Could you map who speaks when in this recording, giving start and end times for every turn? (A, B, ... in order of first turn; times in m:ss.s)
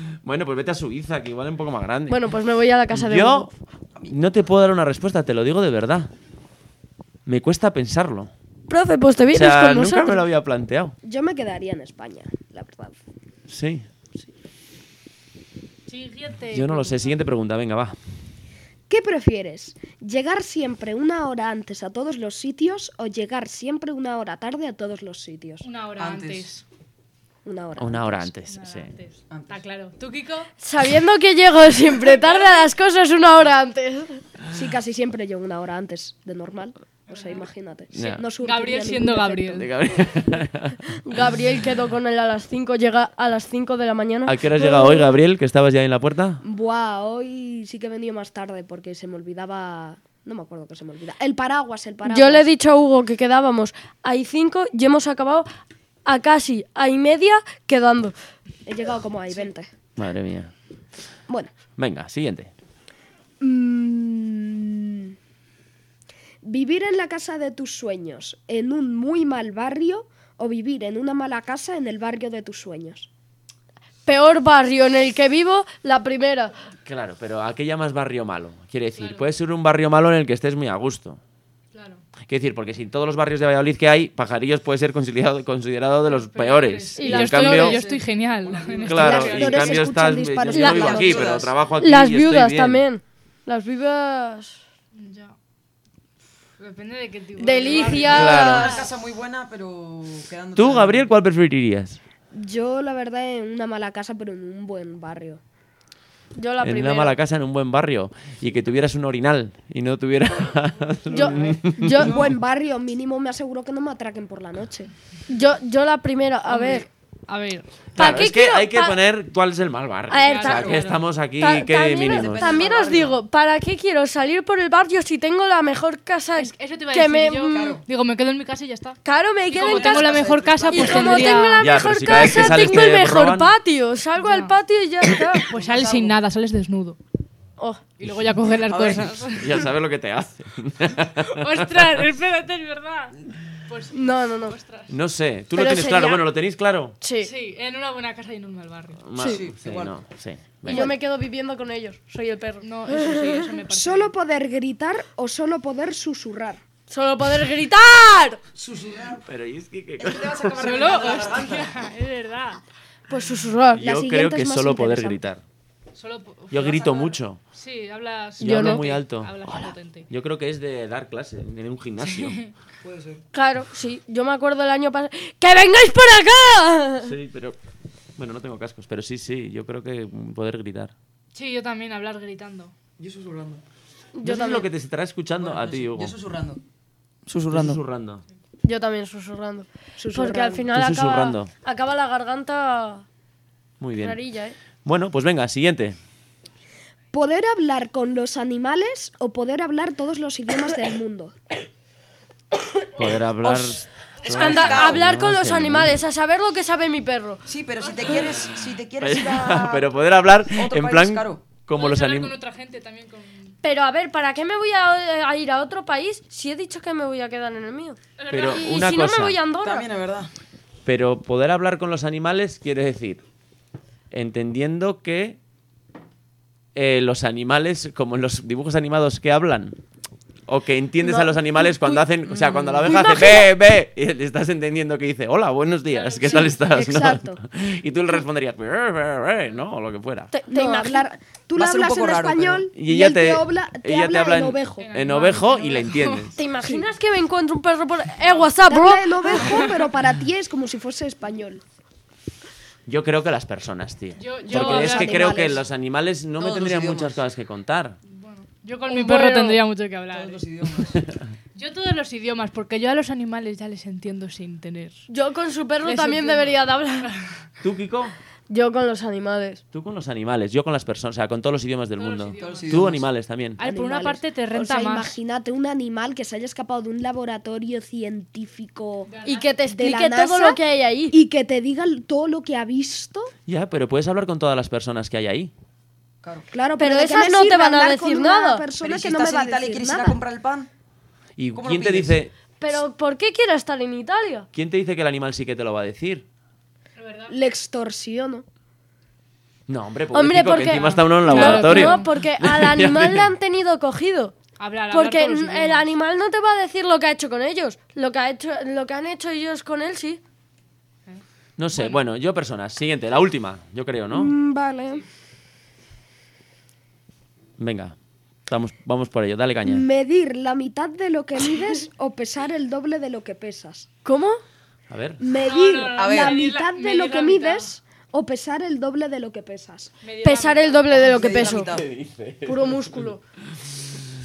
0:00.2-0:02.2 A
0:02.1-0:03.5 B
0:02.9-0:03.5 A
0:04.0-0:06.1 A
0:07.3-0:08.3 A
0:08.7-0:10.2 B
0:09.3-0:11.0 A
0:11.0-0:13.0 C
0:13.5-0:13.9 A
0:15.9-0:17.2 D
0:16.5-0:18.0 A
0:18.9-0:25.7 C
0:25.6-0:26.6 D
0:26.0-0:26.5 E
0:27.4-0:28.3 C
0:27.8-0:28.9 A
0:28.5-0:30.5 D
0:29.3-0:29.6 E
0:30.6-0:34.2 B
0:34.5-0:39.6 C
0:37.1-0:37.4 D
0:37.9-0:38.2 A
0:38.4-0:39.7 D
0:39.6-0:40.8 A
0:41.0-0:45.1 B
0:44.2-0:46.4 A
0:46.4-0:52.5 C
0:52.1-0:55.5 B
0:56.0-0:58.2 B
0:58.7-0:59.7 C
1:00.0-1:00.5 A
1:01.8-1:02.5 A
1:03.4-1:05.2 C
1:06.4-1:13.1 C
1:14.1-1:16.6 B
1:16.8-1:21.2 A
1:19.0-1:19.3 D
1:21.7-1:22.0 D
1:22.3-1:27.8 A
1:26.1-1:29.8 D
1:27.0-1:27.8 B
1:27.5-1:29.6 E
1:28.9-1:32.8 A
1:29.0-1:31.3 C
1:30.5-1:31.6 E
1:30.5-1:34.6 B
1:35.0-1:35.4 D
1:36.6-1:38.9 D
1:37.4-1:41.1 E
1:37.4-1:38.8 B
1:38.0-1:38.8 A
1:40.6-1:42.0 A
1:42.3-1:45.4 C
1:46.4-1:47.1 B
1:46.6-1:52.2 A
1:51.1-1:52.2 B
1:52.0-1:54.9 C
1:52.0-1:52.3 E
1:55.3-1:56.9 B
1:56.5-1:57.7 D
1:58.0-1:59.0 B
1:58.0-2:02.5 A
2:00.1-2:00.9 B
2:00.2-2:01.0 D
2:00.5-2:00.8 E
2:01.4-2:07.8 B
2:02.0-2:03.2 E
2:06.4-2:12.6 D
2:07.5-2:07.8 E
2:09.0-2:15.5 B
2:09.6-2:11.5 E
2:11.3-2:13.5 A
2:14.2-2:14.5 D
2:15.5-2:17.0 D
2:15.5-2:16.1 E
2:17.6-2:17.9 B
2:18.0-2:19.6 D
2:18.0-2:22.0 A
2:18.7-2:19.1 E
2:21.3-2:24.9 D
2:23.9-2:24.6 B
2:24.9-2:27.0 A
2:25.6-2:26.2 B
2:27.0-2:27.3 B
2:27.2-2:29.0 D
2:29.0-2:31.0 A
2:29.2-2:29.9 E
2:29.2-2:29.4 B
2:30.7-2:33.5 B
2:32.6-2:34.1 D
2:33.7-2:36.6 C
2:36.9-2:38.4 B
2:38.6-2:39.3 E
2:39.3-2:40.8 A
2:40.0-2:41.7 E
2:40.6-2:42.6 D
2:43.1-2:43.8 B
2:43.8-2:45.2 C
2:43.8-2:45.4 A
2:46.0-2:46.9 D
2:46.5-2:47.4 A
2:46.6-2:47.2 E
2:47.5-2:50.1 D
2:48.4-2:48.8 B
2:48.4-2:52.4 A
2:52.0-2:52.5 D
2:52.8-2:53.2 E
2:53.3-2:57.1 B
2:57.0-2:57.6 A
2:58.2-3:00.9 A
3:01.3-3:02.7 D
3:03.0-3:03.6 E
3:04.2-3:04.7 B
3:04.2-3:06.2 A
3:05.4-3:06.6 E
3:07.3-3:07.8 E
3:07.5-3:08.2 A
3:08.6-3:13.0 B
3:10.0-3:10.7 C
3:10.7-3:11.5 A
3:13.8-3:14.2 A
3:14.0-3:14.6 B
3:14.8-3:16.0 A
3:17.1-3:21.3 C
3:23.0-3:26.0 A
3:23.0-3:27.4 B
3:24.2-3:25.0 E
3:27.5-3:29.9 E
3:29.0-3:32.3 A
3:30.5-3:31.4 E
3:31.7-3:33.6 D
3:33.6-3:39.9 B
3:38.2-3:38.8 D
3:38.3-3:39.4 A
3:39.6-3:40.3 E
3:40.8-3:43.2 A
3:44.1-3:45.4 A
3:46.8-3:49.8 A
3:50.5-4:00.3 A
3:51.0-3:52.0 B
3:52.3-3:52.9 E
3:52.9-3:53.5 B
3:55.9-3:56.6 D
3:56.3-3:57.4 C
4:00.3-4:01.0 B
4:00.5-4:04.9 C
4:01.6-4:02.7 E
4:02.8-4:06.3 A
4:04.8-4:06.3 D
4:06.4-4:09.7 B
4:08.6-4:11.6 C
4:12.9-4:18.0 A
4:14.2-4:15.5 D
4:14.5-4:15.6 C
4:16.4-4:17.2 E
4:18.1-4:20.4 D
4:18.9-4:19.6 B
4:20.1-4:21.0 E
4:21.6-4:25.1 D
4:25.1-4:27.1 B
4:25.8-4:27.4 D
4:27.6-4:28.2 A
4:28.5-4:29.6 B
4:29.7-4:33.6 A
4:32.0-4:32.8 D
4:32.4-4:33.1 E
4:33.6-4:35.1 D
4:33.6-4:39.1 C
4:39.1-4:39.5 D
4:39.2-4:41.2 B
4:39.7-4:43.3 C
4:43.5-4:45.5 A
4:46.5-4:50.2 C
4:46.8-4:48.7 B
4:48.8-4:50.7 E
4:51.4-4:52.3 A
4:51.5-4:52.2 E
4:52.6-4:54.5 B
4:54.5-4:56.2 A
4:57.0-4:57.4 D
4:57.3-4:58.4 C
4:59.7-5:03.3 A
5:00.1-5:04.4 B
5:00.7-5:02.1 D
5:04.6-5:05.9 D
5:04.9-5:10.2 B
5:11.6-5:14.4 A
5:11.7-5:12.0 D
5:14.1-5:15.0 C
5:17.6-5:18.0 A
5:18.5-5:19.9 A
5:19.6-5:23.9 C
5:24.0-5:24.4 B
5:24.9-5:25.2 A
5:25.2-5:29.9 C
5:25.4-5:27.7 D
5:26.0-5:26.4 E
5:30.0-5:31.3 D
5:30.2-5:31.7 B
5:31.0-5:31.9 E
5:31.5-5:33.1 A
5:32.4-5:33.2 B